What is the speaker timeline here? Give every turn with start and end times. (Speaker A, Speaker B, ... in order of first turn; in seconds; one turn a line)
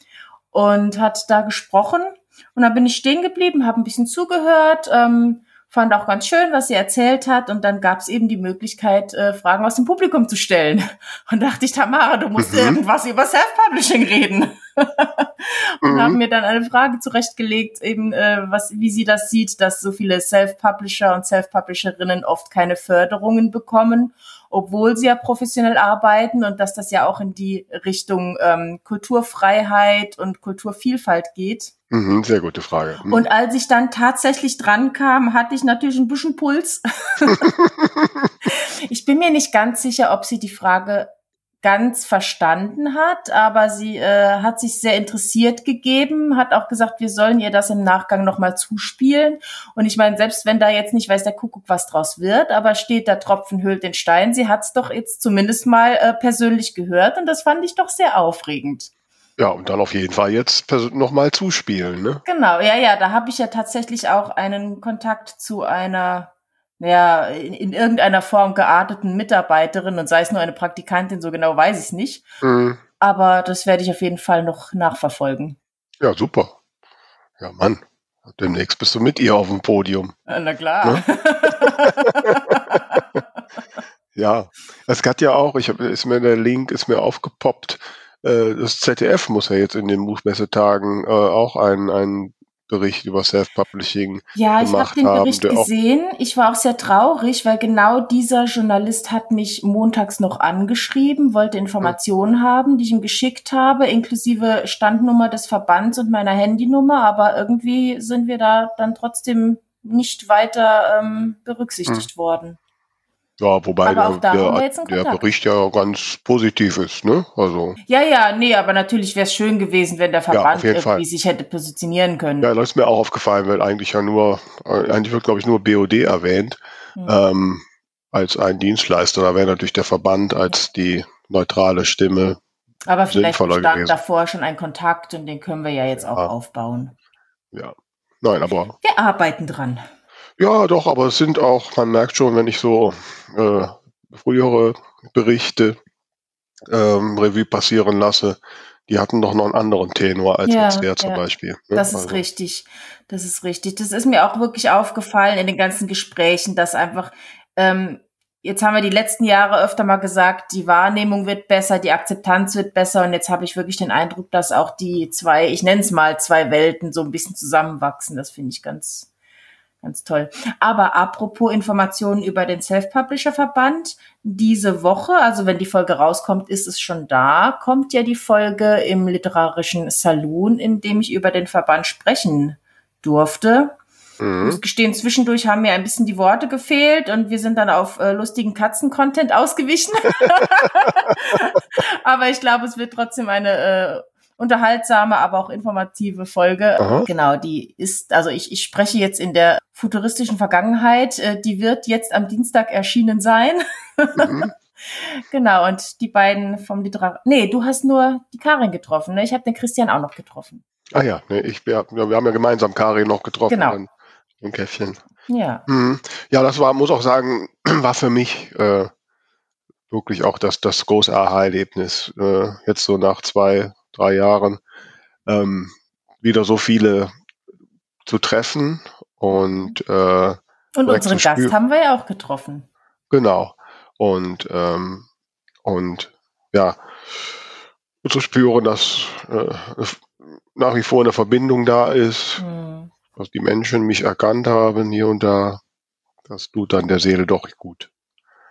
Speaker A: 0.5-31.7
Speaker B: 12.4-12.8
Speaker B: 15.8-16.2
Speaker B: 31.9-33.2
Speaker A: 33.1-37.5
Speaker A: 38.5-41.1
Speaker A: 41.6-58.9
Speaker B: 59.4-62.2
Speaker A: 62.2-72.2
Speaker B: 72.4-72.8
Speaker A: 73.0-75.6
Speaker B: 76.0-76.5
Speaker B: 77.4-80.1
Speaker A: 80.3-83.0
Speaker B: 81.6-83.2
Speaker B: 84.1-95.7
Speaker A: 94.3-112.6
Speaker B: 113.4-117.8
Speaker A: 113.8-115.2
Speaker A: 117.9-122.5
Speaker B: 120.3-121.0
Speaker B: 122.4-132.4
Speaker A: 132.9-136.9
Speaker B: 133.1-133.9
Speaker B: 137.5-138.8
Speaker A: 138.8-139.8
Speaker B: 140.4-145.8
Speaker B: 146.7-152.2
Speaker A: 150.4-151.2
Speaker A: 151.7-169.1
Speaker A: 169.8-183.8
Speaker B: 184.2-184.6
Speaker A: 184.4-210.6
Speaker B: 196.8-197.1
Speaker B: 204.2-204.5
Speaker B: 210.9-213.9
Speaker A: 213.5-213.8
Speaker B: 214.4-215.0
Speaker A: 215.3-215.6
Speaker B: 215.7-218.9
Speaker B: 219.9-224.6
Speaker B: 225.3-227.1
Speaker B: 228.1-231.5
Speaker A: 230.8-232.7
Speaker B: 233.1-235.1
Speaker B: 235.6-236.8
Speaker B: 238.0-242.4
Speaker A: 242.4-242.9
Speaker B: 243.2-245.6
Speaker B: 246.3-247.9